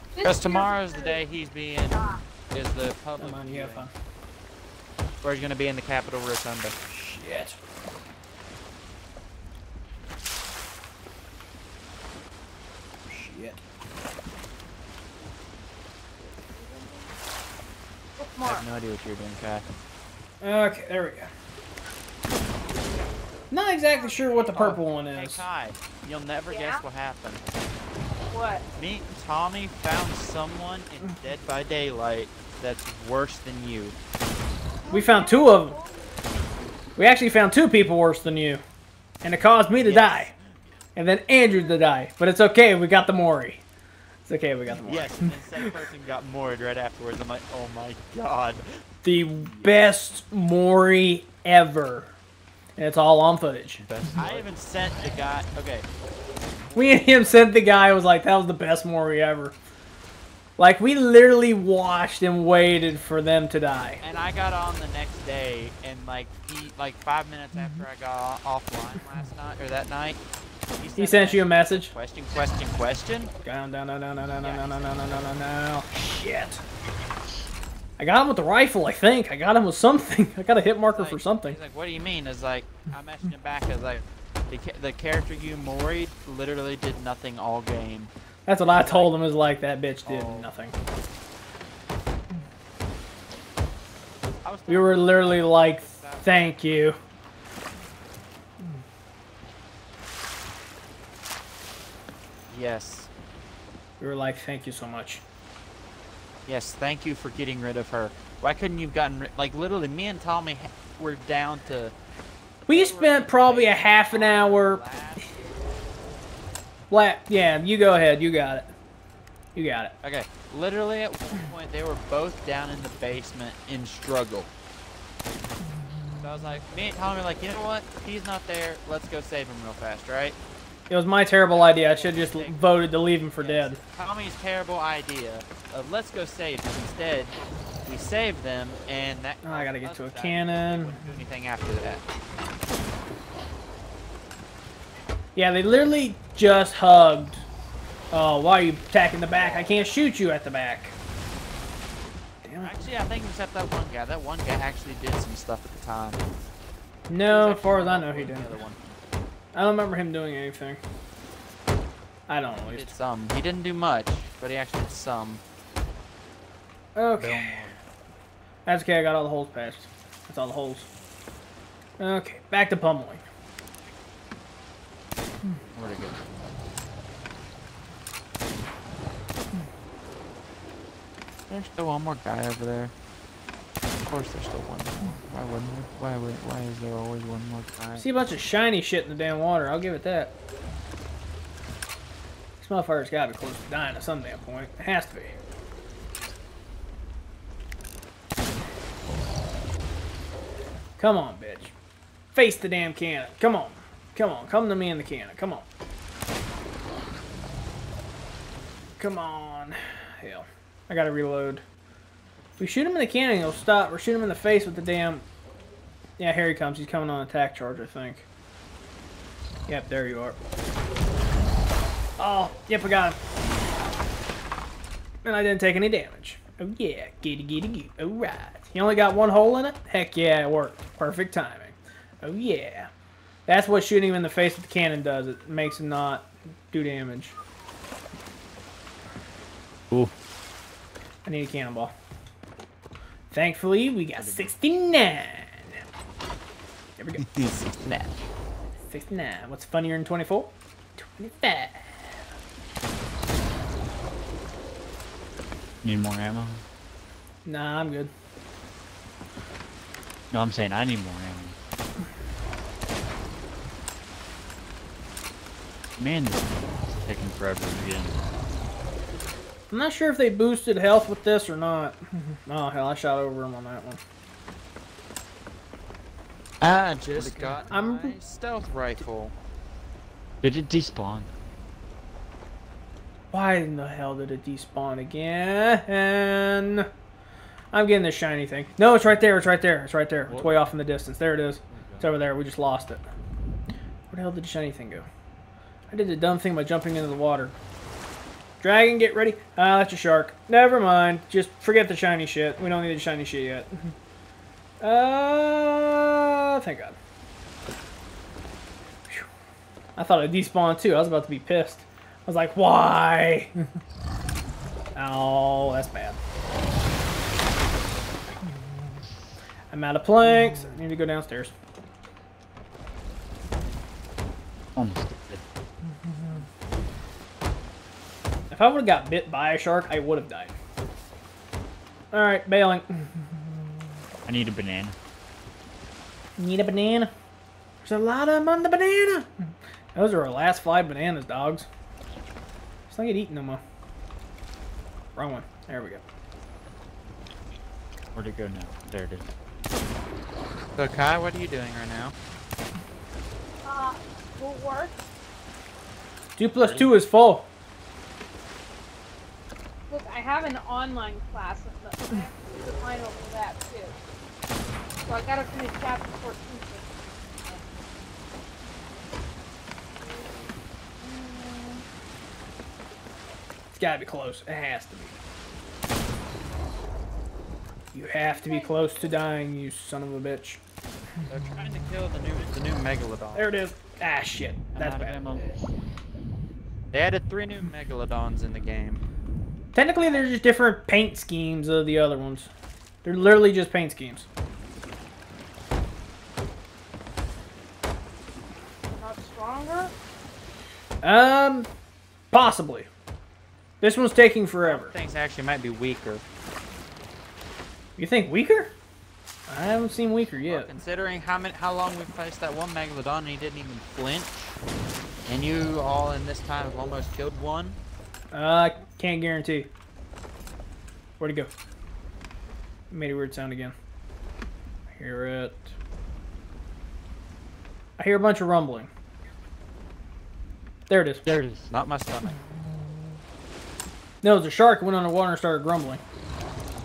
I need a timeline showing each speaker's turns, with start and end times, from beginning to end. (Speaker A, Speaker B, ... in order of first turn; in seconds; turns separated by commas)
Speaker A: 0.2-1.2, Speaker B: 0.2-3.9, Speaker A: 1.9-2.2, Speaker C: 3.2-3.9, Speaker B: 5.2-6.8, Speaker C: 6.9-7.6, Speaker C: 13.1-13.6, Speaker A: 16.2-17.1, Speaker A: 18.2-18.7, Speaker B: 18.4-19.6, Speaker C: 20.4-21.3, Speaker C: 23.5-25.5, Speaker A: 23.9-24.8, Speaker B: 24.5-27.4, Speaker A: 26.5-26.8, Speaker A: 28.3-28.6, Speaker B: 28.8-34.0, Speaker A: 34.8-36.4, Speaker C: 34.9-35.8, Speaker C: 37.0-38.6, Speaker C: 39.2-40.3, Speaker B: 39.8-40.4, Speaker C: 41.0-43.6, Speaker A: 41.5-41.9, Speaker C: 44.3-45.8, Speaker B: 44.9-48.7, Speaker C: 49.0-52.1, Speaker B: 49.5-49.8, Speaker C: 52.8-53.8, Speaker D: 53.8-54.5, Speaker B: 54.2-55.9, Speaker B: 56.7-57.1, Speaker C: 56.7-59.6, Speaker C: 60.6-64.0, Speaker B: 64.0-70.2, Speaker B: 70.8-73.3, Speaker C: 71.0-71.9, Speaker C: 73.4-76.6, Speaker B: 74.4-75.3, Speaker C: 78.0-81.6, Speaker B: 80.9-88.1, Speaker C: 88.5-90.7, Speaker B: 88.7-89.3, Speaker B: 90.0-90.5, Speaker B: 94.4-96.9, Speaker C: 94.7-97.0, Speaker B: 102.5-103.1, Speaker C: 104.0-105.2, Speaker B: 106.5-112.0, Speaker B: 112.7-115.3, Speaker C: 112.7-114.8, Speaker C: 116.9-118.7, Speaker C: 119.5-119.9, Speaker B: 120.0-124.5, Speaker B: 126.2-130.4, Speaker C: 130.9-133.8, Speaker B: 131.5-132.8, Speaker B: 133.4-137.3, Speaker B: 137.9-142.0, Speaker C: 139.4-141.0, Speaker C: 145.3-147.4, Speaker C: 148.1-150.9, Speaker B: 149.2-150.1, Speaker C: 152.4-152.7, Speaker B: 152.6-156.2, Speaker C: 157.1-158.6, Speaker B: 157.2-158.8, Speaker C: 159.5-160.8, Speaker C: 162.3-162.9, Speaker B: 162.6-165.4, Speaker C: 166.9-167.6, Speaker D: 167.2-167.8, Speaker C: 168.7-170.9, Speaker C: 172.0-173.2, Speaker D: 175.7-176.3, Speaker B: 181.5-182.9, Speaker B: 184.1-188.1, Speaker C: 188.0-190.3, Speaker C: 192.6-195.4, Speaker C: 201.0-201.7, Speaker C: 202.3-205.7, Speaker C: 209.0-211.6, Speaker C: 212.6-215.2, Speaker C: 216.2-218.2, Speaker C: 219.7-220.4, Speaker C: 222.2-223.2, Speaker C: 225.2-232.9, Speaker C: 233.5-237.3, Speaker C: 241.2-241.9, Speaker C: 243.3-245.8, Speaker D: 244.1-244.8, Speaker C: 247.0-247.2, Speaker B: 247.2-248.1, Speaker C: 248.9-252.2, Speaker D: 255.8-256.6, Speaker C: 257.4-258.1, Speaker D: 260.3-261.6, Speaker D: 266.0-268.2, Speaker C: 269.7-274.0, Speaker B: 276.6-279.3, Speaker D: 277.1-277.6, Speaker C: 277.7-278.2, Speaker D: 280.4-281.3, Speaker C: 283.3-286.9, Speaker C: 287.7-293.1, Speaker D: 290.3-290.8, Speaker D: 291.7-292.1, Speaker C: 294.1-295.1, Speaker C: 295.9-297.6, Speaker C: 298.6-303.9, Speaker C: 304.8-307.0, Speaker C: 310.0-313.5, Speaker C: 314.9-316.2, Speaker C: 319.7-321.5, Speaker D: 324.8-325.4, Speaker C: 328.5-330.5, Speaker C: 332.1-333.5, Speaker D: 334.3-335.0, Speaker C: 336.4-337.1, Speaker C: 337.8-341.7, Speaker C: 342.9-343.6, Speaker C: 345.1-346.0, Speaker D: 348.1-349.3, Speaker B: 350.8-352.1, Speaker A: 353.6-355.0, Speaker C: 356.4-357.5, Speaker D: 356.6-356.9, Speaker A: 359.9-364.0, Speaker A: 365.1-367.7, Speaker A: 370.0-371.8, Speaker C: 373.7-375.2, Speaker C: 377.9-380.6, Speaker A: 378.2-379.3, Speaker B: 381.3-383.5, Speaker C: 383.4-385.2, Speaker D: 384.8-385.4, Speaker B: 386.9-389.0, Speaker C: 389.7-392.5, Speaker C: 393.0-394.3, Speaker A: 398.9-399.9, Speaker C: 401.0-401.7, Speaker C: 402.3-402.9, Speaker C: 403.8-404.9, Speaker B: 404.6-406.2, Speaker C: 408.0-408.7, Speaker C: 409.5-410.7, Speaker B: 410.4-414.6, Speaker B: 415.3-417.8, Speaker C: 418.3-419.7, Speaker C: 421.2-421.5, Speaker C: 422.9-423.8, Speaker C: 424.9-425.7, Speaker C: 428.0-428.9, Speaker C: 430.9-431.2, Speaker D: 431.2-431.8, Speaker B: 431.7-432.4, Speaker C: 434.2-436.0